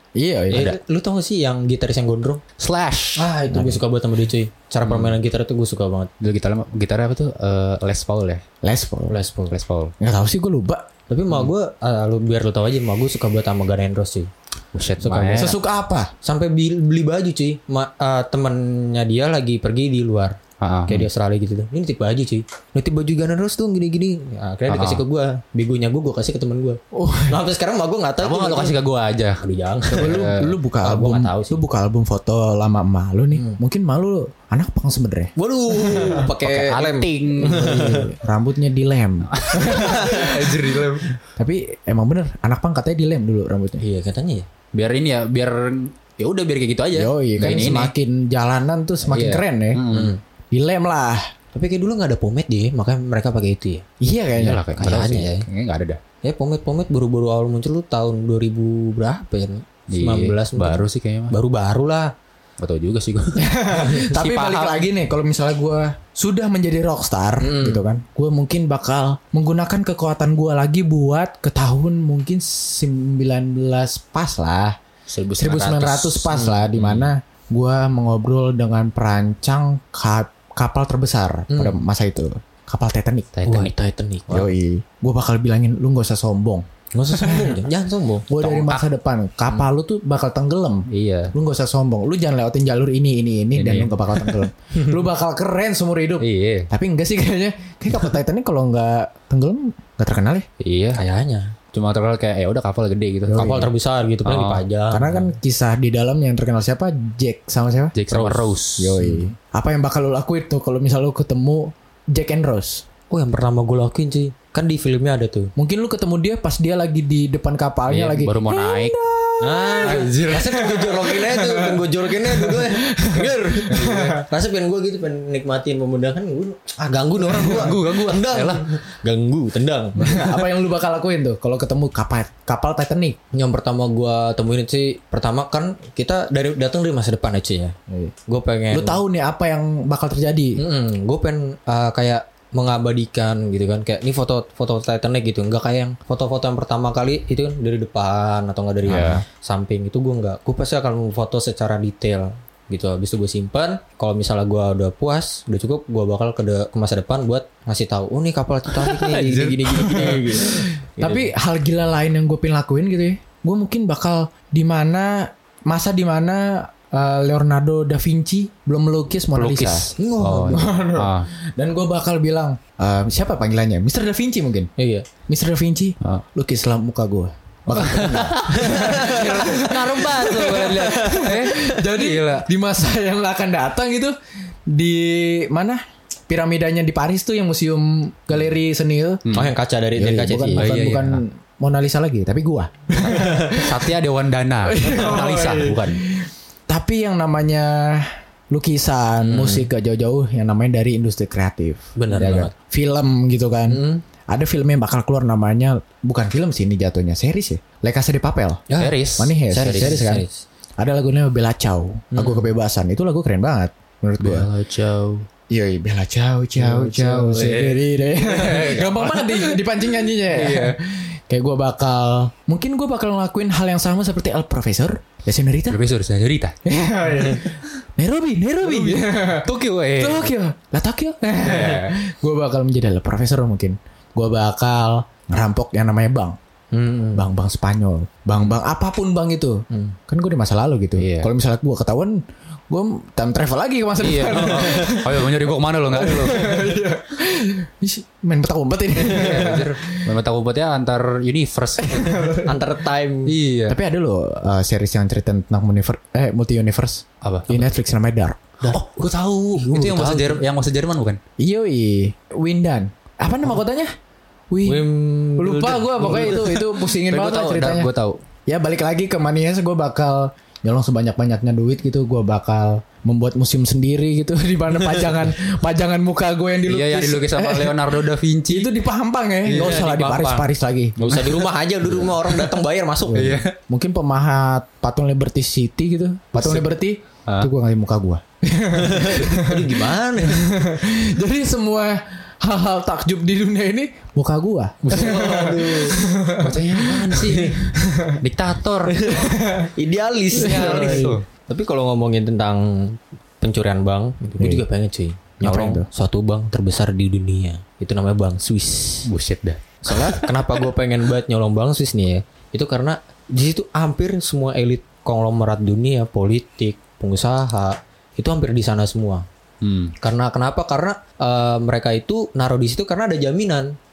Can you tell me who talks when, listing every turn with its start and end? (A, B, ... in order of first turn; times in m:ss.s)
0:00.1-0:00.8 A
0:00.5-0:02.4 B
0:02.6-0:03.3 C
0:03.2-0:06.1 B
0:03.5-0:03.8 A
0:04.8-0:05.2 C
0:06.2-0:08.4 C
0:08.6-0:09.2 A
0:09.1-0:09.5 B
0:09.5-0:09.9 C
0:10.0-0:10.9 A
0:11.1-0:14.3 B
0:14.7-0:15.6 C
0:15.0-0:15.5 B
0:15.4-0:16.1 A
0:16.2-0:28.8 B
0:20.6-0:21.1 C
0:24.7-0:25.0 C
0:26.9-0:27.4 A
0:28.2-0:30.6 C
0:29.4-0:31.6 B
0:29.9-0:36.3 A
0:33.3-0:33.6 B
0:35.4-0:38.1 B
0:36.0-0:37.8 C
0:37.4-0:40.8 A
0:39.3-0:41.1 C
0:39.6-0:40.3 B
0:41.4-0:43.8 A
0:43.8-0:44.5 B
0:44.7-0:47.9 C
0:46.9-0:49.8 A
0:49.0-0:50.1 C
0:49.9-0:50.2 B
0:50.5-0:51.3 A
0:51.5-0:53.8 B
0:54.0-0:54.7 A
0:54.4-0:56.0 C
0:54.8-0:55.5 B
0:56.2-1:02.1 B
0:59.9-1:01.3 C
1:02.6-1:04.9 C
1:03.4-1:14.8 A
1:07.4-1:07.8 B
1:15.1-1:17.1 C
1:15.4-1:23.4 A
1:16.3-1:16.6 B
1:21.5-1:21.8 B
1:23.4-1:23.7 C
1:23.4-1:24.5 B
1:24.3-1:27.6 A
1:26.9-1:28.3 B
1:28.3-1:40.5 A
1:28.4-1:28.8 C
1:30.9-1:31.3 C
1:33.6-1:34.4 C
1:36.2-1:36.7 C
1:40.6-1:41.0 C
1:40.9-1:41.5 B
1:41.7-1:43.6 C
1:43.3-1:43.7 A
1:43.3-1:45.3 B
1:44.2-1:44.6 C
1:44.9-1:48.0 A
1:47.9-1:49.0 C
1:48.1-1:49.3 B
1:48.8-1:52.8 A
1:53.1-1:55.5 B
1:55.6-2:04.2 A
1:57.9-1:59.0 C
1:59.4-2:10.5 B
1:59.8-2:00.5 C
2:07.3-2:08.7 C
2:10.0-2:13.2 A
2:13.3-2:17.8 B
2:17.9-2:18.1 A
2:18.3-2:19.0 B
2:18.7-2:20.6 A
2:20.6-2:41.3 B
2:28.9-2:29.2 C
2:38.7-2:40.4 C
2:40.4-2:49.9 A
2:49.3-2:51.3 C
2:50.0-2:50.7 B
2:50.5-2:54.7 A
2:54.8-2:55.1 B
2:55.3-3:09.3 A
2:57.7-3:02.5 C
2:58.5-2:59.7 B
3:00.3-3:01.3 B
3:09.2-3:09.5 C
3:09.3-3:10.7 B
3:10.0-3:13.9 A
3:10.6-3:11.2 C
3:13.5-3:16.0 C
3:14.6-3:28.6 A
3:19.2-3:19.7 B
3:22.0-3:22.5 B
3:23.7-3:24.0 B
3:28.7-3:29.0 B
3:28.8-3:30.0 C
3:29.2-3:30.2 A
3:29.5-3:30.4 B
3:30.8-3:34.5 A
3:32.1-3:32.5 B
3:34.2-3:35.2 C
3:35.5-3:45.8 A
3:36.7-3:39.6 C
3:40.2-3:40.8 C
3:45.7-3:46.6 C
3:46.6-3:56.4 A
3:48.6-3:50.3 C
3:51.4-3:51.9 C
3:56.7-3:57.3 B
3:57.1-4:10.1 A
3:59.7-4:00.0 B
4:01.0-4:01.3 C
4:04.0-4:06.7 C
4:09.0-4:12.4 C
4:11.8-4:12.6 A
4:12.3-4:13.3 B
4:13.3-4:13.8 C
4:13.7-4:18.4 A
4:17.2-4:17.7 C
4:18.6-4:20.4 B
4:18.6-4:21.2 C
4:21.4-4:23.9 A
4:24.5-4:24.8 A
4:24.6-4:26.6 B
4:25.4-4:27.9 A
4:26.1-4:28.2 C
4:28.5-4:41.1 A
4:36.7-4:38.7 C
4:39.5-4:39.8 C
4:39.5-4:43.4 B
4:41.0-4:41.4 C
4:43.1-4:58.2 A
4:43.1-4:43.5 C
4:46.4-4:46.6 C
4:48.7-4:50.5 B
4:54.8-4:56.0 B
4:54.9-4:55.2 C
4:56.4-4:59.2 C
4:57.2-4:57.6 B
4:58.9-5:09.1 B
4:59.1-4:59.7 A
5:00.3-5:01.2 C
5:00.4-5:01.2 A
5:04.4-5:04.6 A
5:05.4-5:05.9 A
5:09.0-5:10.6 C
5:09.8-5:19.2 B
5:19.6-5:19.9 C
5:20.0-5:23.7 B